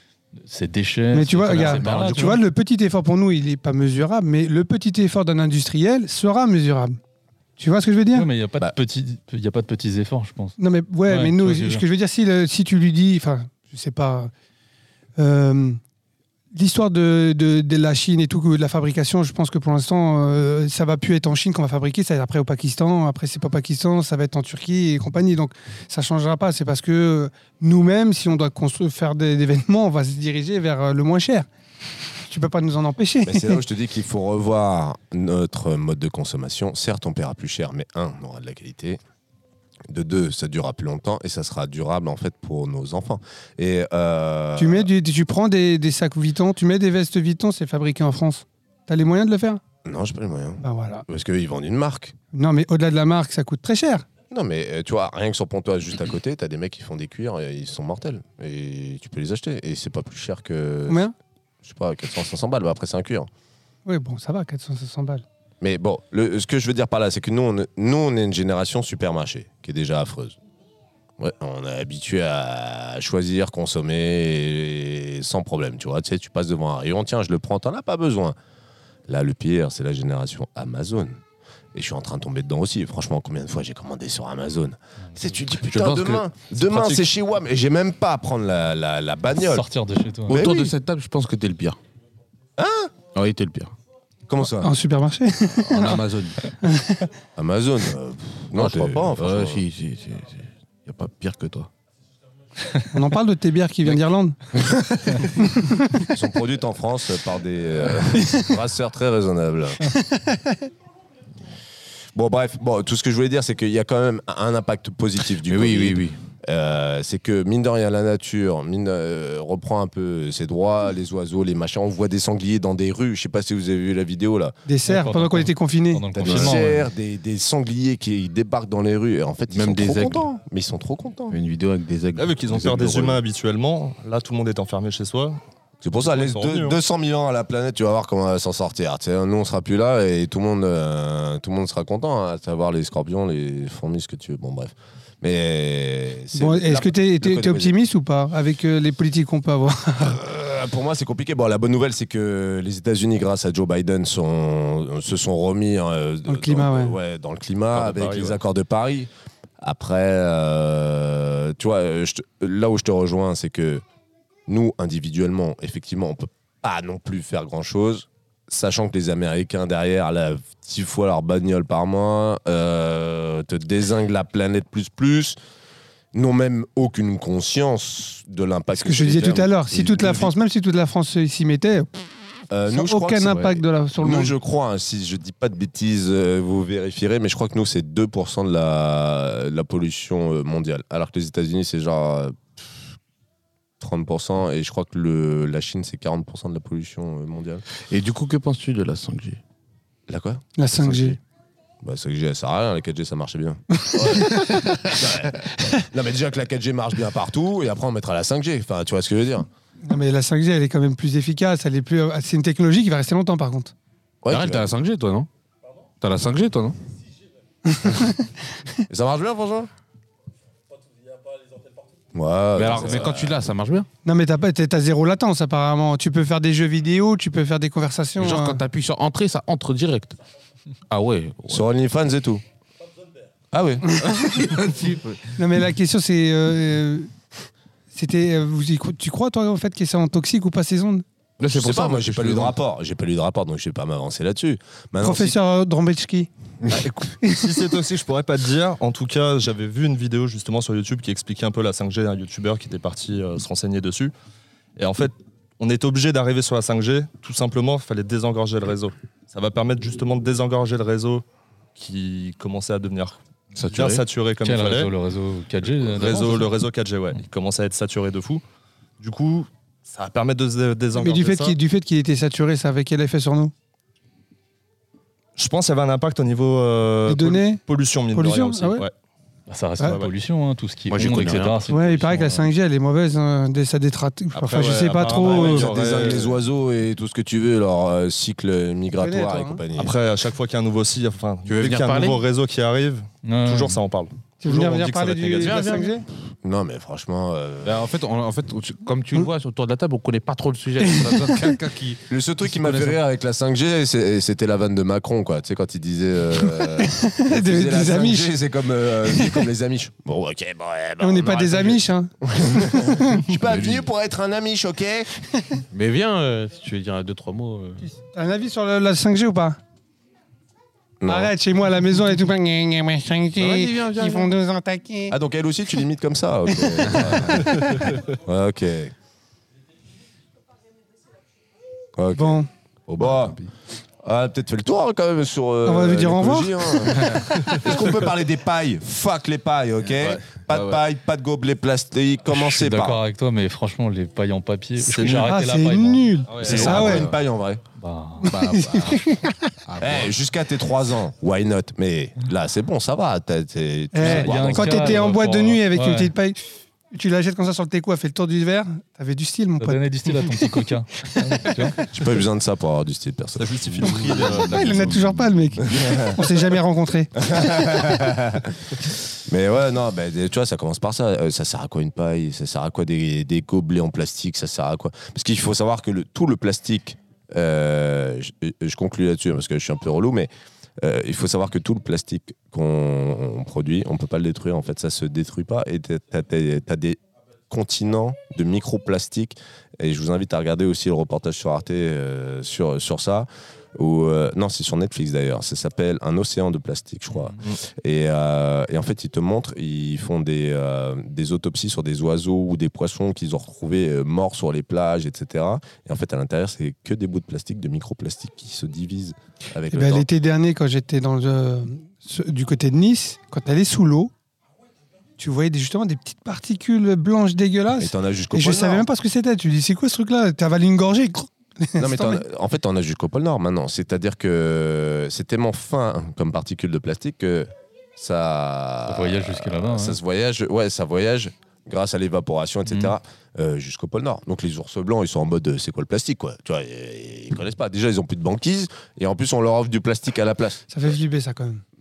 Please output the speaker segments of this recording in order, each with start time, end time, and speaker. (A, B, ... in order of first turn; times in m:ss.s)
0:00.4-0:02.4 A
0:01.1-0:07.0 B
0:01.5-0:02.4 C
0:07.6-0:08.3 B
0:08.1-0:11.8 A
0:10.6-0:14.3 B
0:15.2-0:15.8 B
0:16.5-0:31.5 B
0:32.3-0:33.6 B
0:33.2-0:39.0 D
0:39.9-0:44.9 D
0:44.6-0:49.6 B
0:49.8-0:52.2 D
0:50.6-0:51.0 B
0:52.3-0:54.1 B
0:54.3-1:01.0 D
1:00.9-1:01.1 B
1:01.6-1:03.3 D
1:03.9-1:05.2 B
1:05.6-1:10.4 D
1:11.2-1:18.4 D
1:19.1-1:21.2 D
1:21.7-1:29.7 D
1:25.5-1:27.0 C
1:29.4-1:30.5 A
1:30.3-1:30.7 D
1:30.3-1:31.8 C
1:32.6-1:32.9 D
1:33.1-1:33.7 C
1:34.3-1:34.7 D
1:34.6-1:36.0 B
1:35.6-1:36.5 C
1:36.6-1:37.1 B
1:37.4-1:39.6 D
1:38.6-1:41.7 C
1:42.9-1:46.1 B
1:46.1-1:49.8 D
1:48.2-1:48.5 B
1:49.9-1:50.6 B
1:52.1-2:04.5 D
1:55.4-1:56.2 C
2:04.6-2:06.0 B
2:04.9-2:06.9 A
2:06.1-2:11.4 D
2:06.2-2:06.7 C
2:09.5-2:10.3 C
2:11.3-2:13.2 C
2:12.1-2:15.4 E
2:15.8-2:27.8 D
2:16.1-2:16.8 E
2:26.3-2:30.2 B
2:30.0-2:43.8 D
2:36.3-2:36.9 B
2:37.7-2:38.4 E
2:44.5-2:55.4 D
2:56.1-3:00.3 D
2:58.8-3:01.9 B
3:02.5-3:12.8 D
3:02.7-3:04.4 B
3:13.8-3:17.6 D
3:17.9-3:19.4 C
3:20.1-3:20.5 D
3:20.6-3:21.2 B
3:20.7-3:21.2 C
3:21.8-3:29.5 D
3:23.9-3:24.6 B
3:29.8-3:33.7 B
3:34.2-3:34.7 D
3:34.3-3:35.3 C
3:36.0-3:36.8 C
3:37.7-3:38.2 B
3:38.9-3:39.7 D
3:42.1-3:43.4 D
3:42.6-3:43.9 C
3:44.0-3:48.6 B
3:48.2-3:50.2 C
3:50.9-3:51.6 C
3:51.5-3:52.4 D
3:53.5-3:54.3 D
3:54.2-3:55.2 C
3:55.4-3:57.1 B
3:57.9-4:01.0 B
4:01.4-4:02.6 C
4:01.5-4:05.4 D
4:05.0-4:06.3 B
4:06.7-4:14.1 E
4:14.8-4:21.2 E
4:21.8-4:24.9 E
4:23.6-4:24.0 C
4:24.4-4:26.5 A
4:25.8-4:28.4 E
4:29.0-4:31.6 E
4:30.9-4:33.5 B
4:35.4-4:38.9 E
4:37.1-4:37.6 B
4:38.1-4:38.8 B
4:39.5-4:42.5 A
4:39.8-4:40.1 E
4:40.9-4:41.6 C
4:41.7-4:45.7 B
4:44.3-4:46.4 E
4:45.2-4:49.9 D
4:49.0-4:49.6 B
4:49.8-4:55.6 E
4:51.5-4:52.2 C
4:53.2-4:53.8 A
4:54.4-4:56.1 B
4:55.3-4:55.9 C
4:56.4-4:57.9 D
4:57.6-5:03.0 C
5:00.8-5:01.5 B
5:02.1-5:15.1 D
5:06.6-5:08.3 B
5:09.2-5:09.4 B
5:11.0-5:13.2 B
5:13.4-5:13.9 C
5:15.7-5:17.8 C
5:17.8-5:19.6 B
5:21.0-5:21.3 D
5:21.1-5:25.1 B
5:23.4-5:24.3 C
5:25.1-5:28.9 D
5:26.9-5:27.4 C
5:32.0-5:32.4 D
5:32.1-5:32.5 B
5:32.9-5:33.5 C
5:32.9-5:33.4 D
5:34.0-5:43.0 D
5:35.6-5:36.8 B
5:37.0-5:37.7 C
5:40.5-5:40.8 C
5:42.3-5:47.0 A
5:44.8-5:45.3 E
5:45.2-5:47.0 B
5:46.3-5:46.7 E
5:46.4-5:47.6 D
5:46.5-5:47.1 C
5:47.8-5:48.4 A
5:48.2-5:50.1 C
5:48.3-5:49.5 B
5:49.8-5:55.1 D
5:53.9-5:56.4 B
5:54.0-5:56.1 A
5:56.9-6:00.5 B
5:59.6-6:01.8 A
6:01.1-6:01.5 B
6:01.8-6:05.0 D
6:03.4-6:05.0 E
6:04.5-6:07.9 B
6:05.6-6:06.2 D
6:07.2-6:08.5 D
6:09.1-6:50.1 D
6:49.7-6:54.1 B
6:55.2-7:02.2 B
6:57.8-6:58.8 D
7:01.8-7:20.7 D
7:08.9-7:10.0 A
7:12.7-7:12.9 A
7:20.7-7:21.6 B